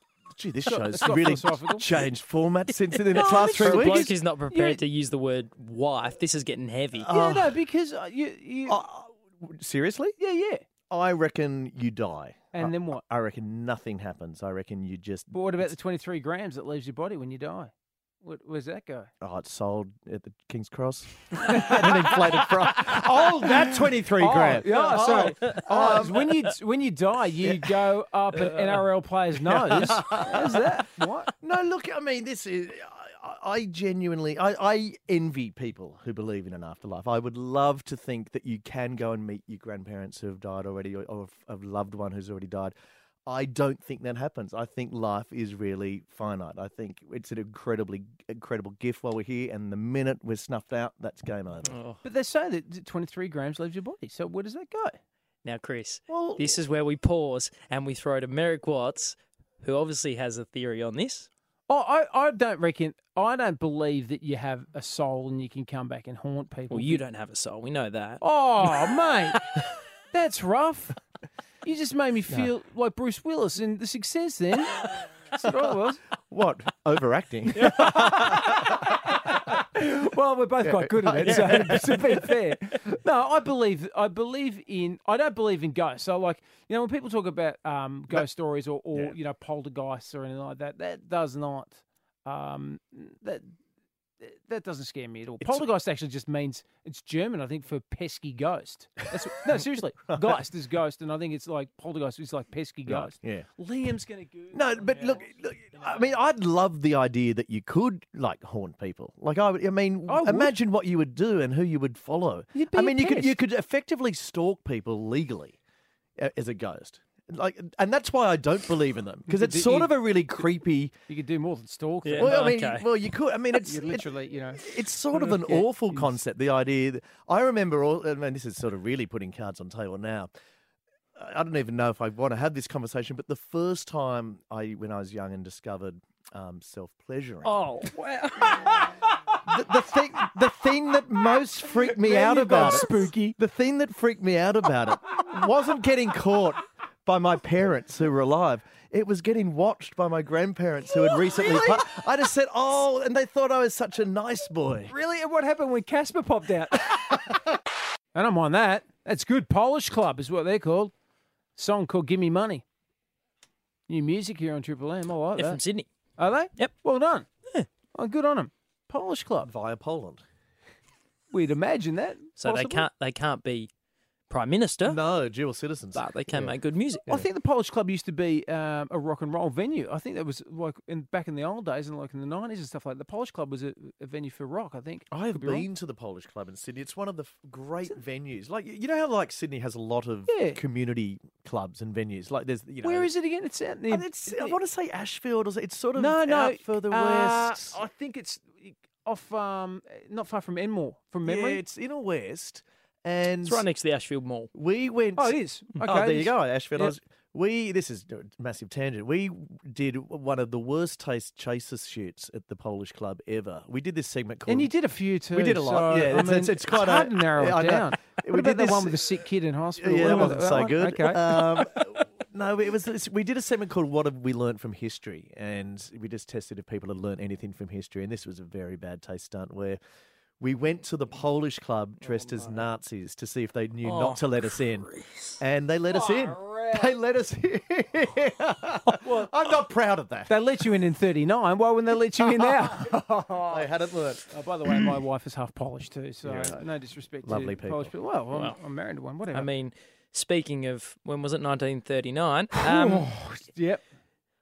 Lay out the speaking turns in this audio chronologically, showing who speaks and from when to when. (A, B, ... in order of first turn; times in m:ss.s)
0:00.3-0:04.2 A
0:00.6-0:01.9 B
0:03.1-0:04.8 B
0:03.2-0:07.1 C
0:07.0-0:07.6 A
0:07.1-0:08.8 B
0:08.7-0:10.2 A
0:10.2-0:10.6 B
0:10.9-0:15.7 A
0:12.5-0:13.0 B
0:15.3-0:19.1 B
0:19.2-0:26.3 A
0:21.5-0:22.0 B
0:23.4-0:31.3 B
0:25.0-0:25.6 C
0:29.5-0:30.8 A
0:31.4-0:42.7 A
0:43.3-0:51.7 A
0:51.7-0:52.0 C
0:52.0-0:55.0 B
0:55.4-1:01.3 C
0:56.1-0:56.6 A
1:01.7-1:07.0 B
1:06.7-1:08.2 C
1:08.2-1:09.4 B
1:10.1-1:11.0 B
1:11.6-1:14.8 B
1:15.3-1:16.0 B
1:16.3-1:18.8 A
1:17.6-1:33.5 B
1:20.6-1:22.2 A
1:34.2-1:46.2 B
1:35.4-1:35.6 A
1:40.1-1:40.4 A
1:42.9-1:43.5 A
1:44.5-1:55.6 A
1:50.1-1:50.5 B
1:52.5-1:53.4 B
1:56.2-2:00.9 A
1:59.3-2:00.5 B
2:01.1-2:02.5 B
2:02.0-2:02.8 C
2:02.2-2:10.3 A
2:03.6-2:04.6 B
2:05.3-2:05.6 C
2:11.2-2:17.6 A
2:17.4-2:18.8 C
2:19.5-2:34.9 A
2:21.8-2:23.4 B
2:30.9-2:31.9 B
2:34.9-2:36.8 B
2:38.1-2:40.9 B
2:41.6-2:42.6 B
2:43.9-2:45.6 B
2:45.4-2:45.9 C
2:46.2-2:47.3 B
2:47.9-2:49.5 B
2:49.4-2:50.2 A
2:51.3-2:52.9 B
2:52.4-2:53.7 C
2:54.3-2:55.0 C
2:54.8-2:56.6 A
2:55.9-2:57.2 C
2:57.1-3:05.7 B
3:05.1-3:13.1 A
3:10.3-3:10.6 B
3:12.8-3:14.6 B
3:13.9-3:17.7 A
3:16.0-3:21.6 B
3:21.2-3:23.6 A
3:23.4-3:24.5 C
3:24.5-3:34.7 A
3:25.2-3:26.9 B
3:34.5-3:41.6 B
3:35.3-3:39.1 A
3:39.8-3:49.8 A
3:50.4-3:54.9 A
3:53.8-3:55.3 C
3:55.4-4:00.4 A
3:55.9-3:57.0 B
4:00.3-4:03.7 B
4:02.2-4:04.3 A
4:04.3-4:09.5 B
4:06.2-4:06.6 A
4:07.2-4:07.9 A
4:09.3-4:13.1 C
4:12.6-4:13.8 B